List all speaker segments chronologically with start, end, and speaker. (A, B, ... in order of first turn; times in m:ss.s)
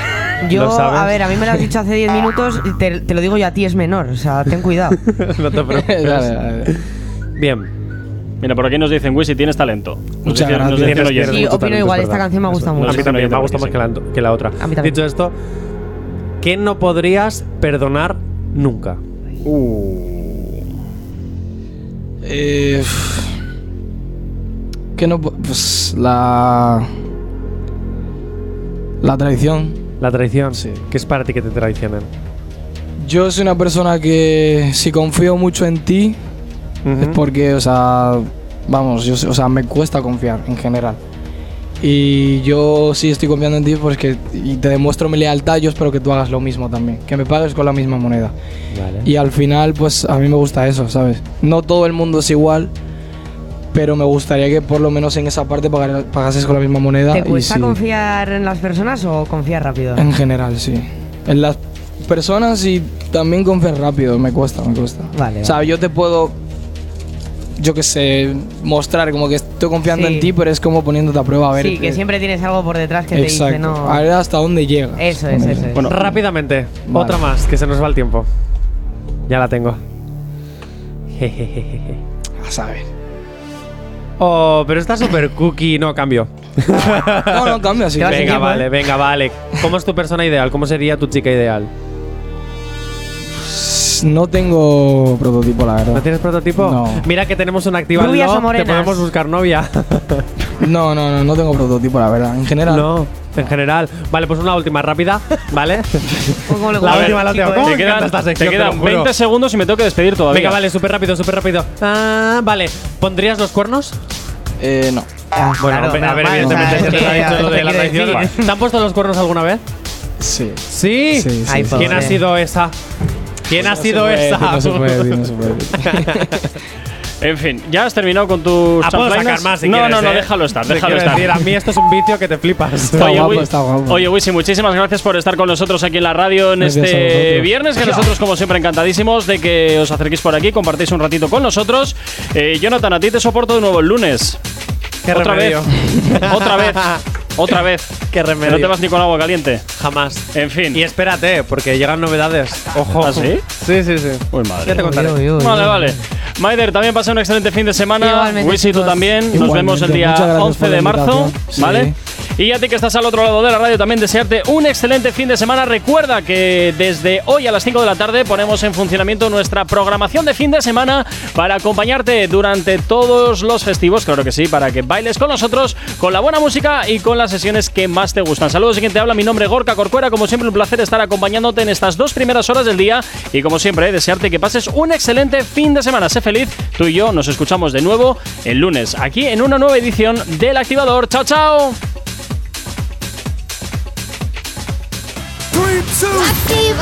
0:00.4-0:05.0 A
0:00.5-0:01.3 B
0:05.0-0:06.8 B
0:05.7-0:06.7 C
0:07.4-0:07.7 B
0:08.4-0:11.5 D
0:10.2-0:11.4 C
0:10.7-0:15.3 B
0:11.2-0:13.2 A
0:12.8-0:13.8 D
0:14.6-0:15.0 A
0:16.4-0:19.0 B
0:19.4-0:20.6 D
0:22.2-0:23.3 C
0:25.0-0:26.9 C
0:29.0-0:29.8 C
0:30.0-0:32.1 B
0:30.5-0:30.8 C
0:33.0-0:36.2 C
0:36.8-0:37.2 B
0:37.0-0:41.0 C
0:41.8-0:48.3 C
0:48.7-0:49.1 B
0:49.0-0:52.7 C
0:53.7-0:57.8 C
0:57.1-1:00.0 A
1:00.0-1:06.4 C
1:05.2-1:05.6 A
1:07.6-1:12.0 C
1:09.9-1:10.3 A
1:11.5-1:14.0 A
1:13.1-1:15.8 C
1:15.0-1:16.2 A
1:15.8-1:18.3 B
1:16.9-1:17.3 C
1:19.3-1:19.8 B
1:21.1-1:22.0 B
1:22.4-1:22.9 C
1:24.2-1:31.7 B
1:27.2-1:28.7 C
1:28.0-1:28.7 A
1:33.4-1:37.1 C
1:35.9-1:40.3 B
1:37.9-1:39.1 A
1:40.6-1:42.9 C
1:42.7-1:49.1 B
1:46.5-1:47.8 A
1:46.8-1:50.6 D
1:50.3-1:54.0 B
1:54.6-1:55.1 C
1:55.3-1:58.5 A
1:55.6-1:59.6 B
1:56.4-1:56.9 C
2:00.2-2:02.2 C
2:00.7-2:02.7 B
2:01.5-2:02.2 A
2:03.5-2:06.4 B
2:03.6-2:06.5 C
2:07.2-2:11.4 D
2:08.8-2:13.4 B
2:12.9-2:14.1 C
2:13.0-2:24.4 D
2:16.6-2:18.0 C
2:25.0-2:27.0 B
2:25.1-2:29.6 D
2:28.1-2:28.8 B
2:29.8-2:35.2 B
2:30.3-2:30.8 D
2:33.0-2:33.4 D
2:34.3-3:11.8 D
2:34.8-2:35.9 A
2:38.0-2:39.1 A
2:39.3-2:41.9 C